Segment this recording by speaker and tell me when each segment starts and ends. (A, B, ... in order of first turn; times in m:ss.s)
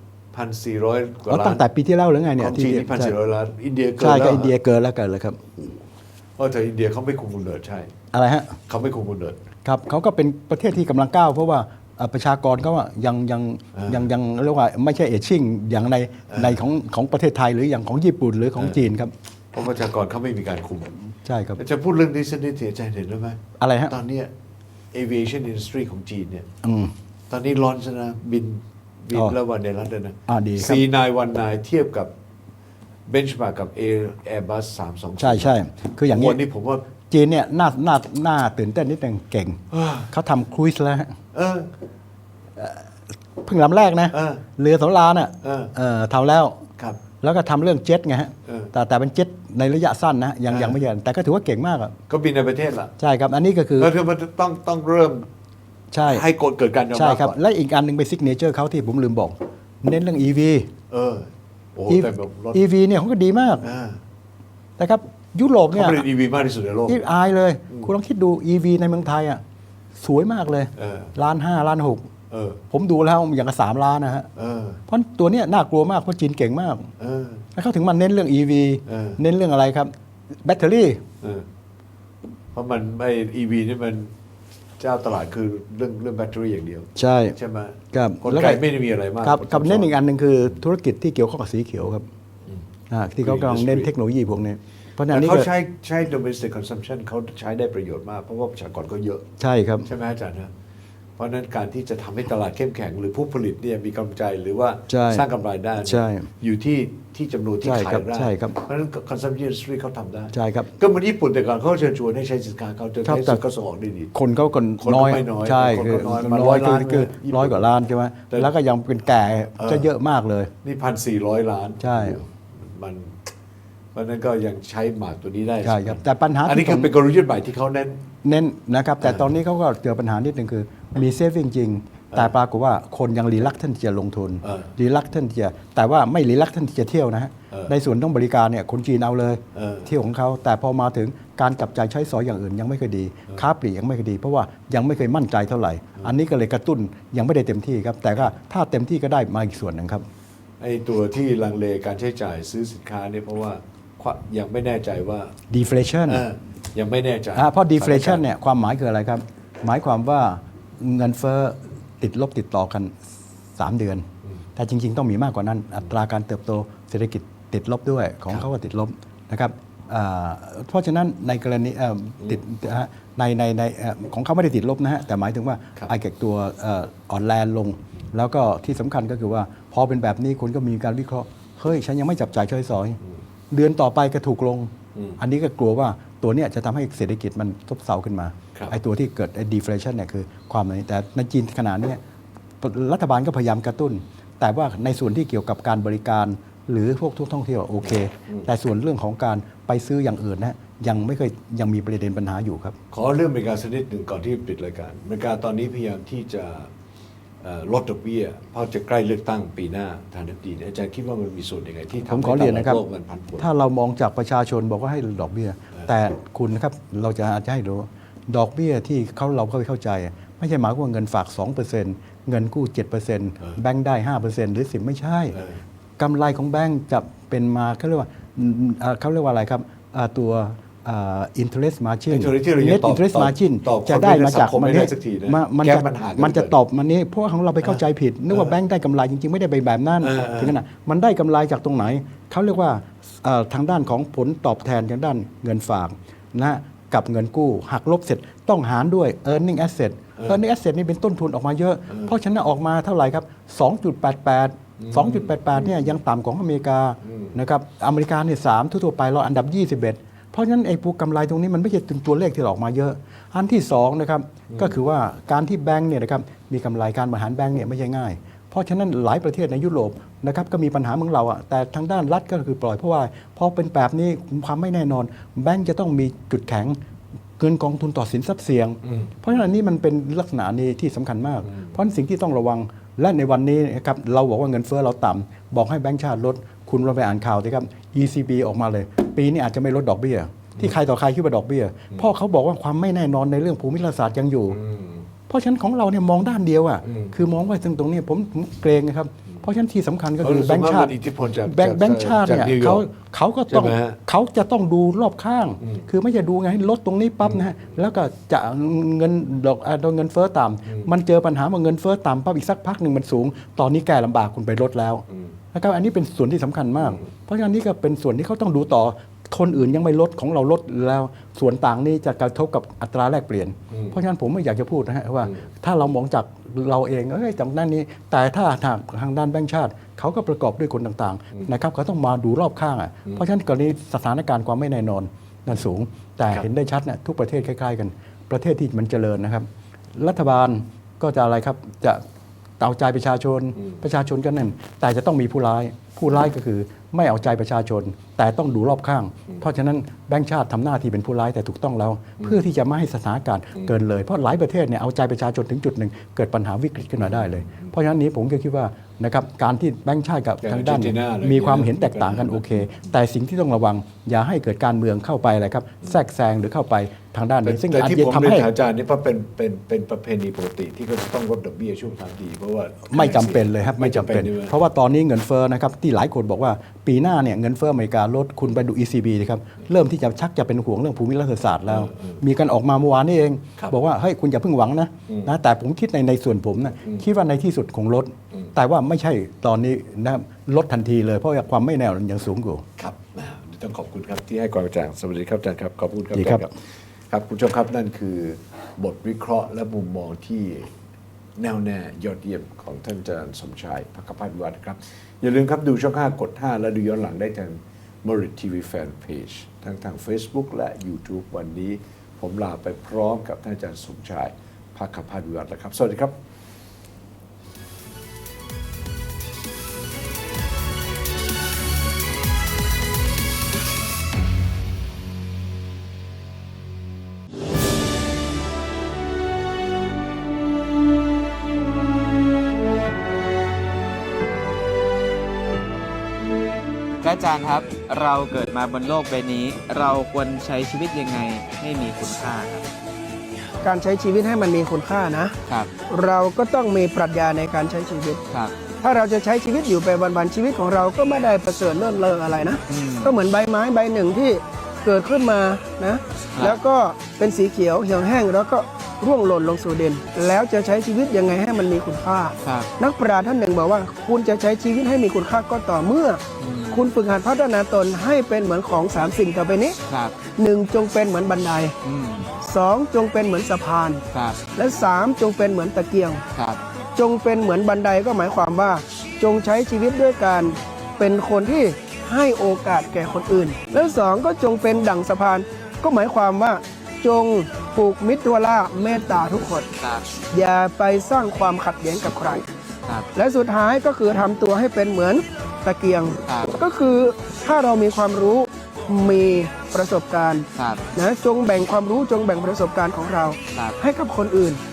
0:00.3-0:01.6 A
0:01.3-0:03.1 B
0:02.4-0:04.5 A
0:04.0-0:05.8 B
0:06.4-0:07.9 A
0:08.1-0:08.6 B
0:08.7-0:09.4 A
0:09.6-0:19.1 B
0:13.7-0:14.1 A
0:16.3-0:16.6 A
0:19.5-0:21.0 A
0:21.2-0:21.6 B
0:21.6-0:24.3 A
0:23.6-0:24.0 B
0:24.9-0:26.5 A
0:26.6-0:26.9 B
0:27.3-0:32.1 A
0:30.3-0:30.8 B
0:33.1-0:36.8 A
0:35.2-0:36.4 B
0:37.1-0:41.2 B
0:39.7-0:40.1 A
0:41.3-0:41.7 A
0:42.6-0:46.6 B
0:44.1-0:44.4 A
0:45.4-0:45.7 A
0:47.2-0:51.9 B
0:48.4-0:48.7 A
0:50.5-0:50.8 A
0:52.1-0:52.9 A
0:53.0-0:53.9 B
0:53.8-0:55.3 A
0:55.9-0:56.2 B
0:56.1-0:57.4 A
0:56.9-1:00.7 B
1:00.9-1:02.6 A
1:01.9-1:03.7 B
1:03.6-1:04.0 A
1:04.8-1:06.0 B
1:05.7-1:07.0 A
1:06.9-1:09.4 B
1:10.0-1:12.1 B
1:10.8-1:11.1 A
1:12.3-1:12.6 A
1:12.7-1:14.3 B
1:14.3-1:14.8 A
1:14.9-1:16.9 B
1:17.0-1:17.4 A
1:17.5-1:21.0 B
1:18.9-1:19.2 A
1:22.5-1:24.1 A
1:24.8-1:30.0 A
1:27.0-1:27.4 B
1:27.9-1:28.6 B
1:29.2-1:32.0 B
1:32.9-1:35.5 B
1:33.2-1:33.9 A
1:35.1-1:39.3 A
1:39.4-1:39.9 B
1:39.8-1:40.5 A
1:41.2-1:54.1 A
1:44.9-1:45.2 B
1:45.8-1:46.3 B
1:47.6-1:48.6 B
1:50.3-1:50.7 B
1:53.0-1:53.4 B
1:54.1-2:00.5 B
1:54.8-1:57.6 A
1:59.6-1:59.8 A
2:00.6-2:03.2 A
2:01.8-2:02.2 B
2:03.9-2:08.0 A
2:05.6-2:06.9 B
2:08.2-2:30.0 B
2:14.4-2:14.7 A
2:19.5-2:19.9 A
2:30.6-2:35.3 A
2:35.5-2:36.2 B
2:36.1-2:38.2 A
2:37.3-2:43.0 B
2:43.6-3:03.0 B
3:03.5-3:12.0 B
3:12.6-3:22.8 B
3:22.9-3:26.7 A
3:27.4-3:33.5 A
3:32.0-3:32.8 B
3:33.4-3:45.4 B
3:45.3-3:45.6 A
3:46.0-4:36.8 B
3:52.1-3:56.5 A
4:00.0-4:00.6 A
4:14.8-4:15.7 A
4:17.0-4:17.3 A
4:37.4-4:54.6 B
4:38.8-4:39.1 A
4:54.5-4:55.0 A
4:55.3-5:42.0 B
4:56.8-4:57.1 A
5:00.2-5:02.9 A
5:03.5-5:04.0 A
5:42.6-6:08.5 B
5:57.1-5:57.7 A
6:00.4-6:02.8 A
6:07.4-6:14.5 A
6:12.9-6:32.6 B
6:21.7-6:22.2 A
6:32.8-6:40.7 A
6:36.1-6:36.5 B
6:41.4-6:56.1 A
7:17.0-7:22.6 C
7:23.6-7:25.4 D
7:25.4-7:25.7 C
7:25.9-7:28.2 D
7:28.3-7:28.6 C
7:28.8-7:51.7 D
7:32.7-7:33.1 C
7:42.4-7:42.7 C
7:46.4-7:46.9 C
7:49.9-7:50.2 C
7:51.8-7:52.3 C
7:52.4-7:54.0 D
7:54.1-7:54.4 C
7:54.5-7:56.2 D
7:56.3-7:56.6 C
7:56.9-8:09.7 D
8:09.8-8:10.1 C
8:10.3-8:12.4 D
8:13.1-8:24.6 D
8:16.2-8:16.6 C
8:20.5-8:20.9 C